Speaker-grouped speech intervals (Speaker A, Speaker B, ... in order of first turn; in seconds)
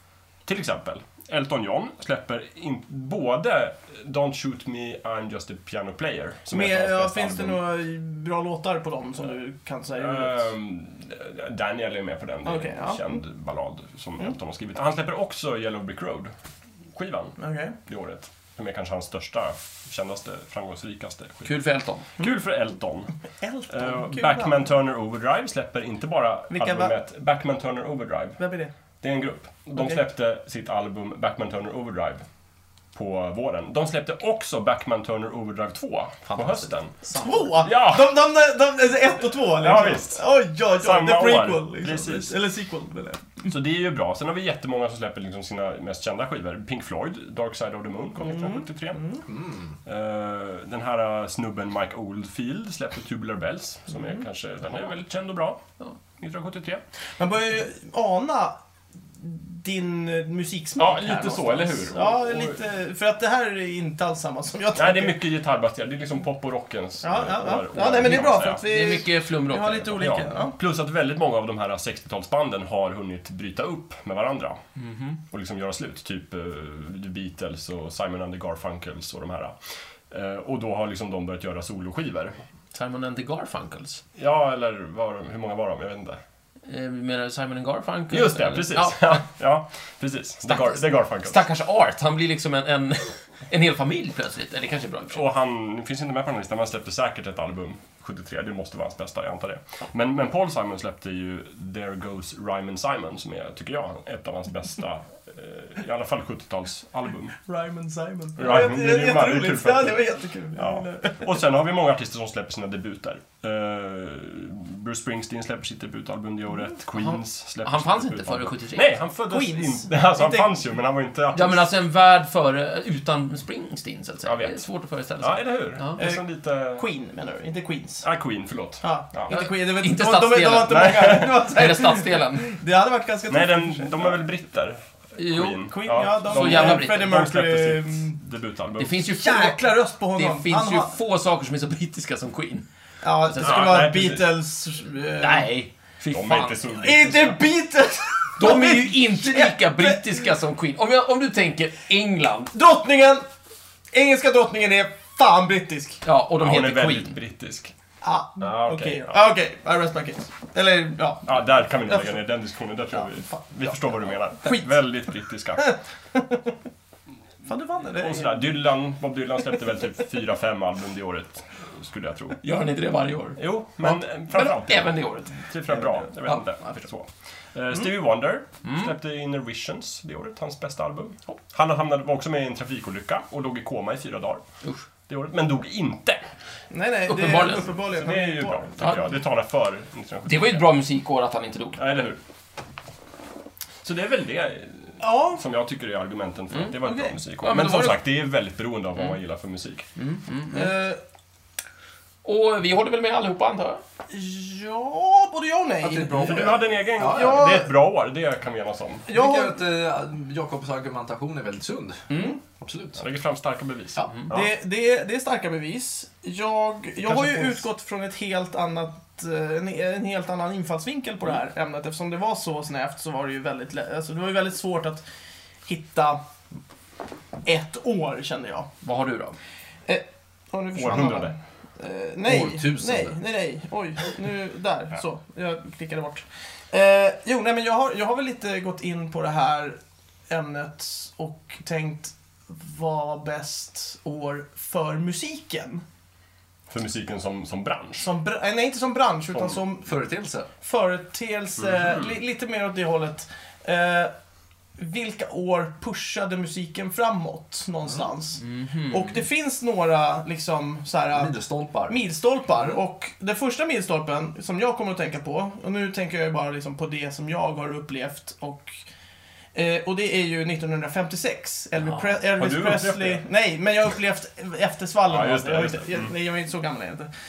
Speaker A: 0.5-7.6, 10.0-16.3, 16.9-21.5, 22.2-23.1, 23.7-28.4, 29.0-32.2, 32.9-36.9, 37.6-38.2, 39.4-40.2, 40.8-42.4, 43.5-49.1, 49.8-55.6, 56.2-56.8, 60.8-62.6, 64.7-68.7, 70.0-74.6, 75.3-79.6, 80.1-82.4, 84.2-86.2, 88.1-91.4, 95.1-107.4, 108.4-110.0, 110.5-121.7, 124.2-124.6, 125.2-126.8, 128.0-129.3, 130.7-131.4, 133.3-139.0, 143.4-144.3, 146.1-147.4, 156.4-157.7, 158.4-159.2, 161.2-165.7, 167.9-172.4, 173.4-184.4, 185.1-186.2, 187.9-190.7, 191.8-192.2, 193.8-199.8, 206.2-209.1, 212.9-214.5, 217.1-217.4, 230.7-231.3, 246.7-248.1, 251.6-252.2, 272.4-273.2, 275.1-276.1
Speaker B: 6.5-10.5, 12.4-13.2, 17.4-17.8, 23.4-24.6, 26.5-26.9, 28.4-28.7, 37.1-43.5, 48.2-49.2, 57.2-58.6, 59.2-65.2, 67.0-70.6, 107.5-111.3, 119.3-120.6, 126.0-126.2, 126.7-128.0, 128.8-134.2, 135.7-138.2, 139.1-140.9, 143.0-145.5, 146.7-150.1, 152.5-153.2, 153.9-156.0, 158.0-162.2, 162.9-163.8, 164.4-164.7, 165.6-166.5, 167.4-168.6, 186.7-188.9, 195.0-195.4, 196.8-197.1, 200.5-201.0, 204.1-207.7, 209.1-209.5, 214.3-225.0, 225.7-226.2, 227.4-228.7, 229.9-239.8, 240.3-245.8, 248.0-249.9, 250.6-254.1, 254.8-261.3, 261.9-268.8, 269.5-277.1
Speaker C: 21.4-22.1, 36.2-37.5, 68.0-70.2, 74.8-75.2, 82.7-84.0, 86.7-89.2, 90.5-95.2, 116.9-118.9, 121.3-126.0, 129.3-132.6, 135.2-135.7, 136.2-137.1, 138.8-142.7, 143.3-143.7, 145.2-146.6, 148.4-152.5, 156.0-157.2, 172.4-176.8, 178.6-178.9, 187.1-187.8, 190.2-191.8, 197.4-198.0, 199.9-200.7, 202.2-203.8, 212.1-212.4, 228.8-229.3, 258.4-259.2
Speaker D: 49.3-49.7, 205.8-207.5, 209.1-213.0, 232.2-233.2, 249.8-250.5, 261.1-262.0